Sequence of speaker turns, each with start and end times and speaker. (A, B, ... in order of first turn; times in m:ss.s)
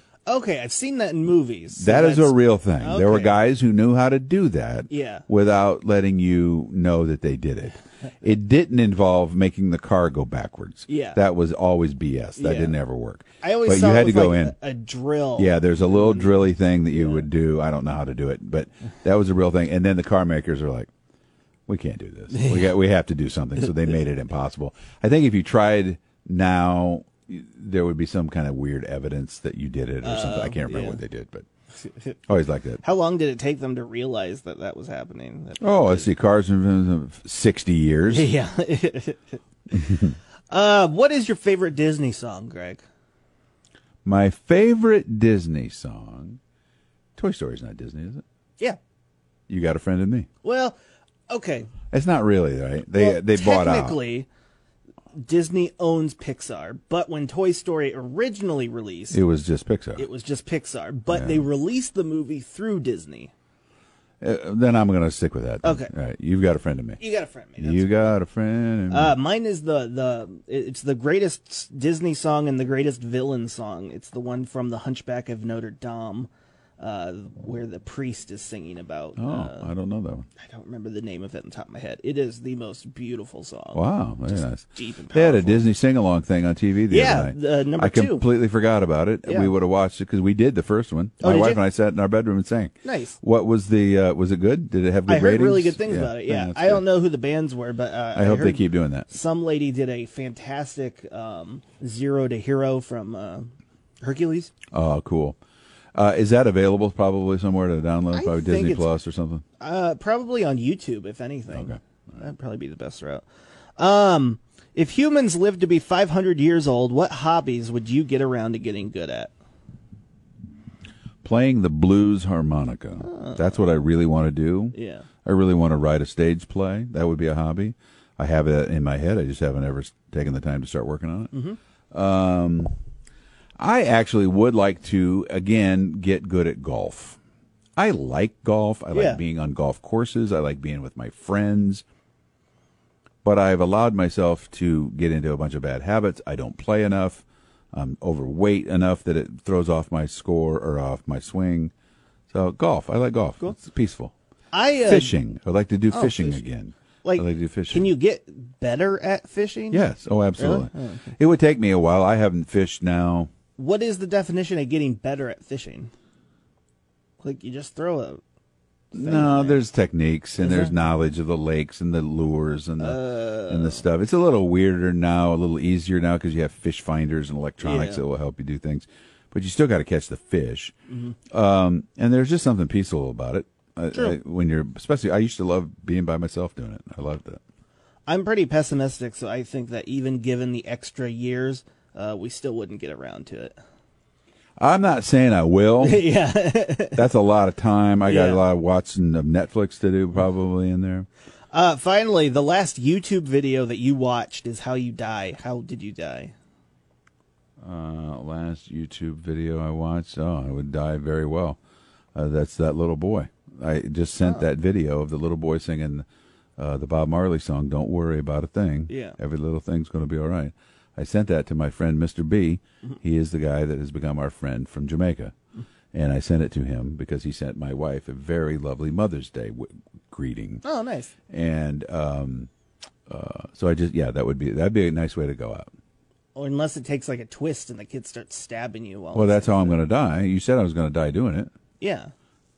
0:00.3-0:03.4 A
0:01.8-0:14.6 B
0:04.9-0:05.2 A
0:10.9-0:11.2 A
0:12.4-0:12.8 A
0:13.4-0:17.3 A
0:15.4-0:20.9 B
0:21.7-0:31.4 B
0:22.3-0:22.7 A
0:30.0-0:31.0 A
0:32.3-0:32.8 B
0:32.8-0:36.1 A
0:35.6-0:38.3 B
0:38.1-0:39.4 A
0:39.7-0:40.1 B
0:40.5-0:42.8 A
0:44.0-0:46.4 B
0:47.2-0:48.2 B
0:49.5-0:50.3 B
0:50.4-0:50.8 A
0:51.3-0:51.7 A
0:51.9-0:54.0 B
0:52.9-0:54.3 A
0:55.1-0:59.2 A
0:59.1-1:00.0 B
1:00.0-1:03.3 A
1:01.1-1:01.4 B
1:04.2-1:07.0 B
1:05.6-1:05.9 A
1:07.0-1:08.1 A
1:07.6-1:09.2 B
1:08.9-1:16.3 A
1:16.8-1:19.7 A
1:19.2-1:20.3 B
1:20.4-1:25.7 A
1:23.7-1:36.8 B
1:26.9-1:28.3 A
1:29.2-1:29.5 A
1:31.2-1:31.6 A
1:32.8-1:33.2 A
1:35.0-1:44.5 A
1:38.1-1:39.1 B
1:44.7-1:45.4 B
1:45.9-1:49.4 B
1:48.1-1:48.9 A
1:49.6-1:53.2 A
1:51.5-1:51.8 B
1:53.8-1:59.3 A
2:01.2-2:11.3 B
2:03.0-2:03.6 A
2:04.7-2:05.1 A
2:11.3-2:11.6 A
2:11.9-2:12.7 B
2:13.6-2:17.2 B
2:17.8-2:21.8 B
2:18.9-2:19.2 A
2:23.2-2:31.7 B
2:32.3-2:34.1 B
2:34.5-2:35.1 A
2:34.8-2:37.9 B
2:35.9-2:36.4 A
2:37.0-2:41.1 A
2:39.7-2:43.3 B
2:43.6-2:45.9 A
2:47.2-2:48.2 A
2:48.9-2:49.6 A
2:48.9-3:00.7 B
2:50.4-2:50.7 A
2:52.8-2:53.8 A
2:57.6-2:58.0 A
3:00.9-3:01.2 A
3:01.3-3:07.4 B
3:03.9-3:04.2 A
3:08.1-3:13.6 A
3:14.6-3:16.1 B
3:15.8-3:17.0 A
3:16.9-3:21.1 B
3:18.0-3:18.4 A
3:21.5-3:26.3 A
3:27.6-3:31.6 B
3:32.1-3:36.0 B
3:36.6-3:45.3 B
3:38.9-3:39.2 A
3:45.9-3:50.6 B
3:50.6-3:51.1 A
3:51.3-3:52.5 B
3:53.1-3:55.7 B
3:56.3-3:59.8 A
3:59.1-4:01.5 B
4:01.8-4:02.1 A